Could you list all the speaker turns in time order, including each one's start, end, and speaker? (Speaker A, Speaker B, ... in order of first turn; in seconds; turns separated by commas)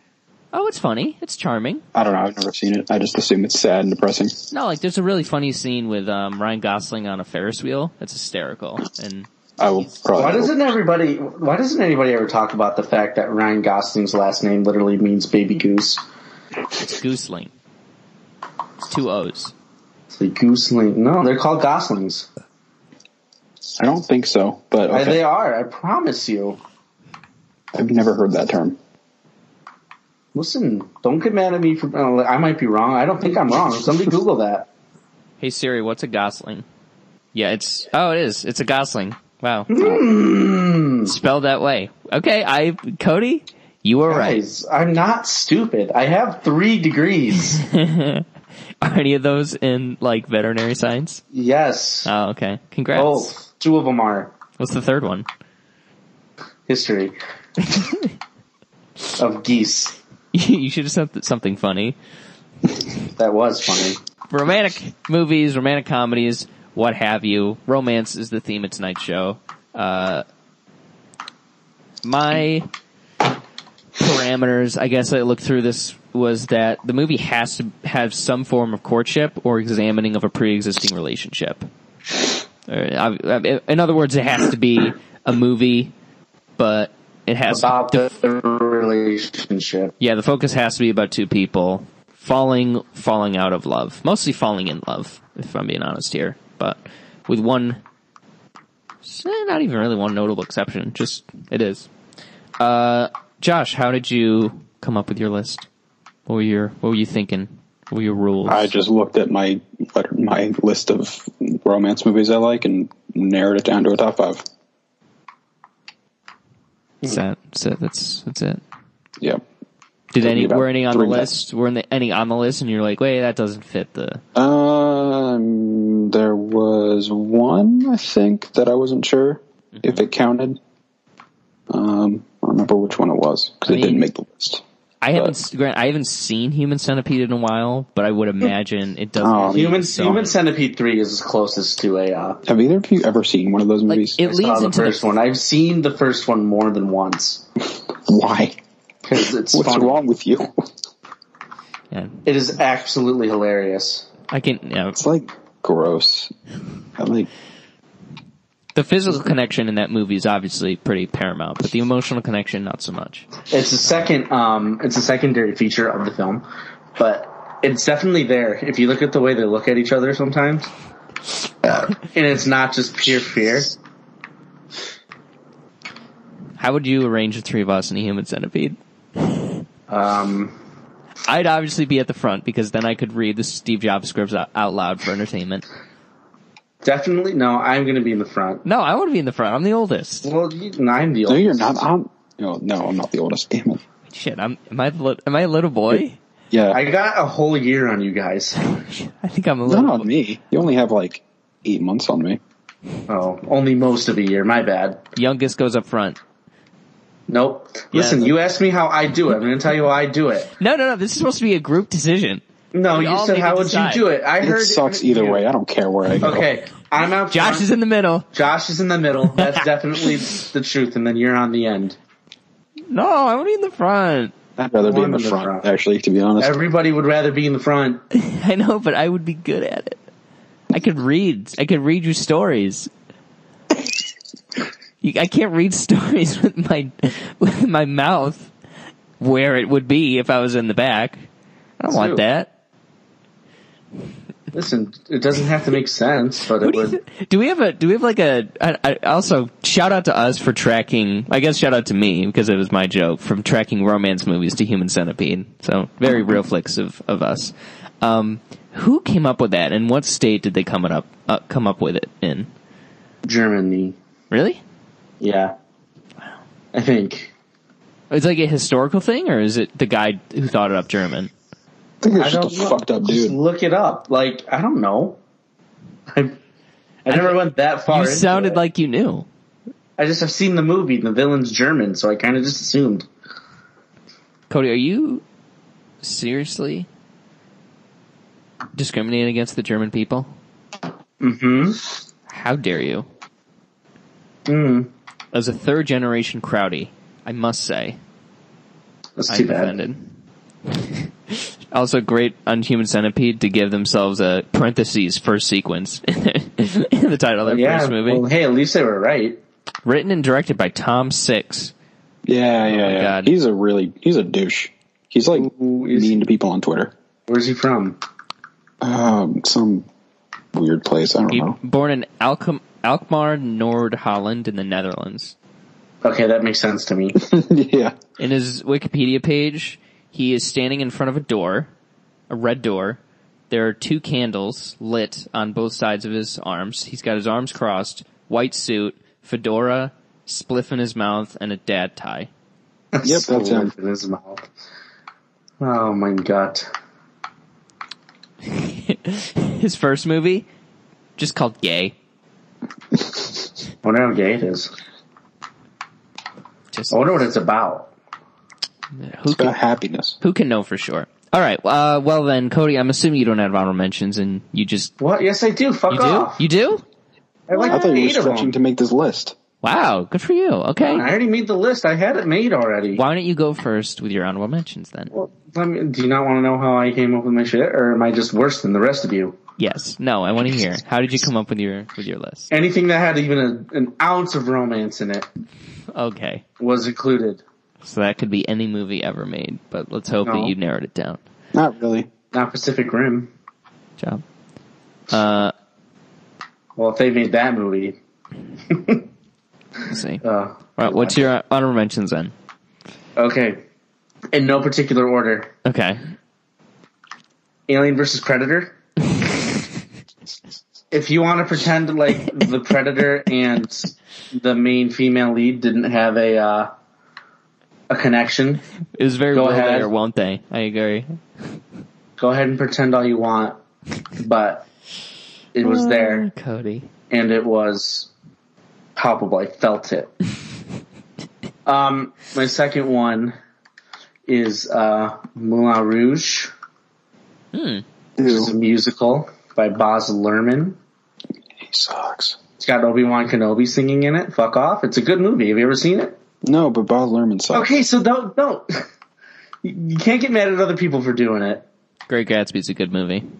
Speaker A: 0.5-1.8, Speaker B: 1.9-4.3, Speaker A: 4.5-9.3, Speaker B: 9.6-10.6, Speaker C: 10.1-16.0, Speaker A: 16.8-17.5, Speaker A: 18.8-19.5, Speaker C: 20.1-22.3, Speaker B: 23.8-25.2, Speaker C: 24.9-26.6, Speaker B: 27.7-28.8, Speaker C: 30.3-34.7, Speaker A: 35.4-36.6, Speaker A: 37.3-39.7, Speaker C: 39.7-41.1, Speaker A: 41.0-44.4, Speaker C: 44.1-47.6, Speaker A: 47.5-48.2, Speaker A: 48.8-51.2, Speaker C: 51.3-52.1, Speaker A: 52.0-53.3, Speaker C: 52.9-54.3, Speaker A: 54.6-55.2, Speaker C: 56.7-57.1, Speaker A: 57.7-58.1, Speaker C: 59.2-60.0, Speaker A: 60.3-62.0, Speaker C: 63.2-64.0, Speaker A: 64.3-70.2, Speaker A: 72.0-72.7, Speaker A: 74.0-81.7, Speaker A: 82.7-85.9, Speaker A: 86.6-88.1, Speaker C: 87.5-89.9, Speaker A: 90.0-97.8, Speaker A: 99.0-101.9, Speaker A: 102.6-105.7, Speaker A: 106.3-108.7, Speaker B: 108.5-114.4, Speaker A: 117.0-118.6, Speaker A: 120.1-124.2, Speaker B: 120.2-121.4, Speaker B: 124.3-130.6, Speaker B: 131.7-134.6, Speaker A: 133.7-134.0, Speaker A: 135.0-140.3, Speaker B: 139.2-139.7, Speaker C: 139.5-142.4, Speaker B: 142.4-144.2, Speaker A: 143.9-145.1, Speaker C: 144.2-147.4, Speaker B: 148.1-148.6, Speaker C: 149.1-150.0, Speaker B: 149.5-150.6, Speaker A: 151.9-152.2, Speaker C: 152.2-154.1, Speaker A: 154.3-155.0, Speaker B: 154.9-156.3, Speaker B: 157.0-157.3, Speaker A: 158.7-163.3, Speaker C: 163.5-166.4, Speaker C: 167.0-170.7, Speaker C: 171.6-173.8, Speaker A: 176.6-178.8, Speaker C: 179.9-180.5, Speaker A: 181.2-185.6, Speaker C: 186.8-188.6, Speaker A: 188.6-190.3, Speaker C: 190.2-191.8, Speaker B: 191.3-193.8, Speaker A: 194.1-196.2, Speaker B: 195.9-196.8, Speaker C: 196.7-198.6, Speaker A: 198.7-200.1, Speaker B: 199.7-202.4, Speaker C: 203.1-205.0, Speaker A: 205.2-206.2, Speaker C: 207.3-210.5, Speaker A: 207.9-208.3, Speaker A: 210.6-214.1, Speaker C: 212.7-215.4, Speaker B: 214.4-216.5, Speaker C: 216.2-217.7, Speaker A: 217.3-218.3, Speaker C: 218.3-222.0, Speaker A: 222.9-224.3, Speaker B: 224.6-226.6, Speaker C: 224.8-225.7, Speaker C: 226.4-228.0, Speaker A: 228.1-230.0, Speaker A: 230.7-232.9, Speaker A: 235.0-238.5, Speaker A: 239.2-241.2, Speaker A: 241.8-242.5, Speaker C: 241.9-242.2, Speaker C: 244.5-247.0, Speaker A: 246.6-262.5, Speaker C: 263.2-263.9, Speaker A: 264.3-264.6, Speaker C: 265.2-265.5, Speaker C: 266.7-267.3, Speaker A: 268.1-271.3, Speaker B: 272.0-273.4, Speaker C: 272.1-275.2, Speaker C: 276.1-276.4, Speaker C: 277.1-278.6, Speaker A: 277.1-279.3, Speaker C: 280.0-283.1, Speaker A: 284.5-285.2, Speaker A: 286.0-286.9, Speaker A: 288.8-290.3, Speaker C: 291.2-291.8, Speaker A: 292.3-293.1, Speaker C: 294.4-294.9, Speaker A: 295.3-298.0, Speaker C: 299.2-299.8, Speaker A: 299.3-300.1, Speaker A: 300.7-308.2, Speaker C: 307.4-309.4, Speaker A: 309.8-311.7, Speaker B: 312.2-316.9, Speaker A: 312.6-313.3, Speaker C: 315.3-316.2, Speaker C: 317.3-318.0, Speaker B: 318.8-319.9, Speaker B: 320.5-321.6, Speaker A: 321.3-325.3, Speaker C: 326.0-327.2, Speaker B: 327.1-327.9, Speaker A: 328.2-331.7, Speaker A: 332.3-333.0, Speaker A: 333.5-342.3, Speaker C: 342.9-344.5, Speaker B: 343.0-343.7, Speaker C: 345.6-346.7, Speaker A: 348.4-350.5, Speaker A: 351.2-351.9, Speaker C: 353.8-354.7, Speaker A: 356.7-357.2, Speaker C: 356.9-357.9, Speaker A: 358.9-359.6, Speaker B: 359.3-360.2, Speaker A: 360.2-364.9, Speaker C: 365.0-366.4, Speaker A: 365.9-366.8, Speaker C: 367.5-368.6, Speaker B: 367.6-369.4, Speaker A: 369.6-371.1, Speaker C: 370.8-373.0, Speaker A: 372.9-375.1, Speaker C: 375.1-379.4, Speaker A: 379.6-382.5, Speaker C: 382.5-385.3, Speaker A: 385.9-386.4, Speaker C: 386.6-387.4, Speaker A: 387.8-391.2, Speaker C: 390.2-390.5, Speaker B: 391.5-392.1, Speaker C: 392.3-393.3, Speaker A: 395.1-395.5, Speaker C: 396.8-398.0, Speaker C: 398.7-399.0, Speaker A: 399.9-400.2, Speaker C: 400.2-401.3, Speaker A: 400.8-402.3, Speaker C: 403.2-403.6, Speaker C: 404.3-405.5, Speaker A: 405.6-406.0, Speaker C: 407.7-408.7, Speaker C: 410.9-416.7, Speaker C: 417.9-418.6, Speaker A: 418.9-421.2, Speaker C: 419.3-419.9, Speaker C: 422.2-423.6, Speaker C: 424.2-424.6, Speaker C: 425.5-426.3, Speaker A: 425.6-426.9, Speaker C: 427.1-428.1, Speaker C: 428.9-430.1, Speaker C: 431.6-433.3, Speaker C: 434.3-436.5, Speaker A: 437.5-437.8, Speaker B: 438.2-438.5, Speaker C: 438.2-440.8, Speaker B: 441.6-442.4, Speaker C: 442.6-446.1, Speaker B: 446.4-447.7, Speaker C: 447.5-448.8, Speaker C: 449.6-451.6, Speaker A: 452.1-453.3